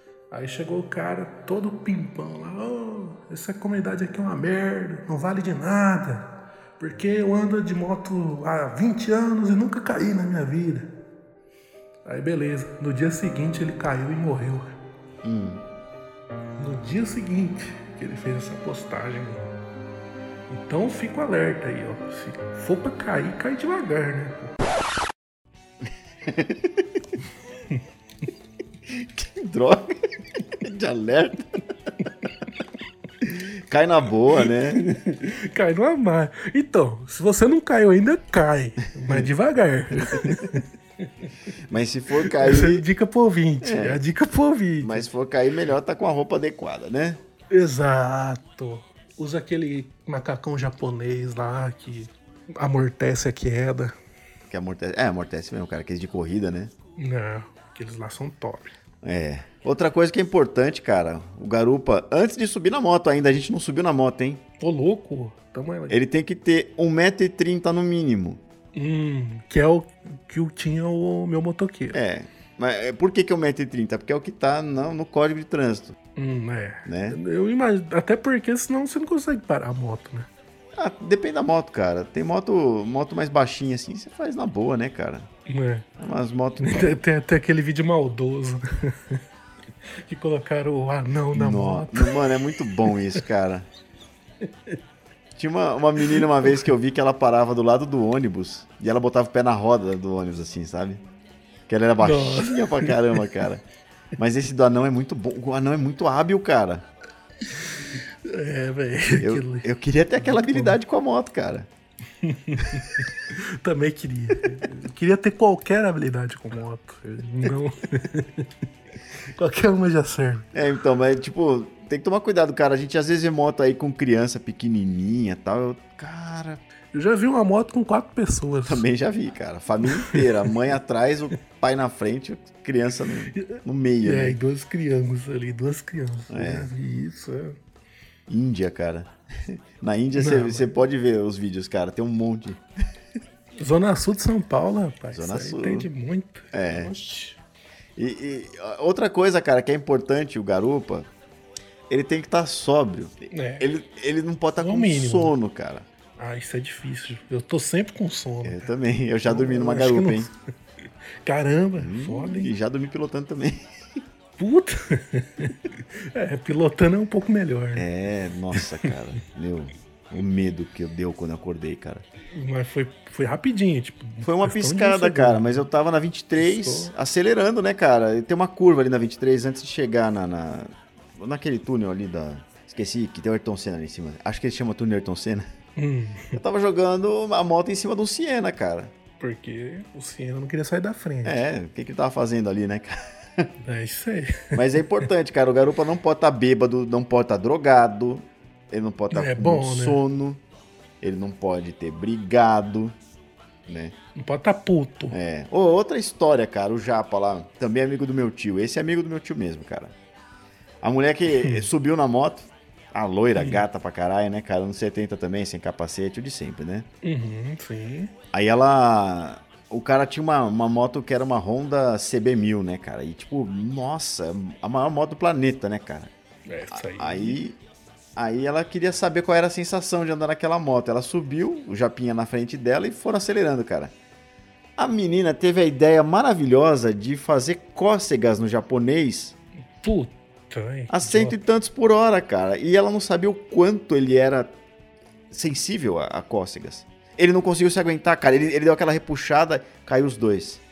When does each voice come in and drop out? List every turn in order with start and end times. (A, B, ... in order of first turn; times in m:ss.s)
0:00.3-0:10.9 A
0:12.0-0:14.7 A
0:15.2-0:15.6 B
0:16.6-0:19.5 A
0:20.5-0:24.5 A
0:26.2-0:26.8 B
0:28.9-0:30.0 B
0:30.6-0:31.5 B
0:33.2-0:34.8 B
0:34.4-0:40.7 A
0:39.0-0:39.3 B
0:40.1-0:40.4 B
0:41.7-0:42.8 B
0:42.2-0:45.0 A
0:43.6-0:44.0 B
0:44.8-0:47.2 B
0:47.5-0:53.9 A
0:54.5-0:56.7 B
0:57.0-0:58.7 A
0:59.0-1:04.4 B
1:04.6-1:06.0 A
1:05.9-1:08.4 B
1:08.7-1:12.0 A
1:11.9-1:16.0 B
1:16.2-1:20.3 A
1:16.8-1:17.2 B
1:20.8-1:25.3 B
1:25.5-1:25.9 A
1:26.0-1:26.9 B
1:26.6-1:29.2 A
1:30.0-1:32.2 A
1:31.3-1:33.7 B
1:32.8-1:33.2 A
1:35.4-1:41.0 B
1:41.7-1:43.6 B
1:42.0-1:43.2 A
1:44.2-1:46.8 B
1:47.6-1:49.7 A
1:49.2-1:51.7 B
1:50.2-1:50.8 A
1:52.2-1:58.5 A
1:59.2-2:00.5 A
2:00.5-2:06.6 B
2:06.9-2:08.8 A
2:08.6-2:14.4 B
2:09.9-2:10.5 A
2:13.3-2:17.6 A
2:16.3-2:16.7 B
2:18.3-2:22.6 B
2:20.1-2:20.7 A
2:23.6-2:27.4 A
2:25.1-2:25.9 B
2:26.5-2:26.9 B
2:28.0-2:31.1 B
2:31.9-2:35.8 B
2:33.3-2:33.7 A
2:34.6-2:35.3 A
2:36.2-2:38.7 A
2:38.4-2:40.3 B
2:39.2-2:40.3 A
2:41.2-2:42.5 A
2:41.8-2:43.6 B
2:44.4-2:47.8 A
2:47.7-2:52.0 B
2:48.5-2:48.9 A
2:52.3-2:55.6 A
2:54.2-3:05.4 B
2:56.4-2:56.9 A
3:05.8-3:06.4 A
3:06.3-3:08.9 B
3:09.2-3:11.4 A
3:11.2-3:13.5 B
3:13.6-3:15.0 A
3:14.5-3:20.4 B
3:19.1-3:20.0 A
3:21.0-3:23.0 B
3:23.7-3:23.9 B
3:24.2-3:25.2 A
3:25.1-3:29.9 B
3:30.8-3:36.9 B
3:31.3-3:31.7 A
3:33.4-3:33.6 A
3:37.0-3:38.1 A
3:38.3-3:46.1 B
3:46.5-3:47.4 A
3:46.7-3:47.6 B
3:48.2-3:53.9 B
3:54.8-3:59.4 B
3:59.8-4:01.4 A
4:00.9-4:04.5 B
4:05.3-4:10.6 B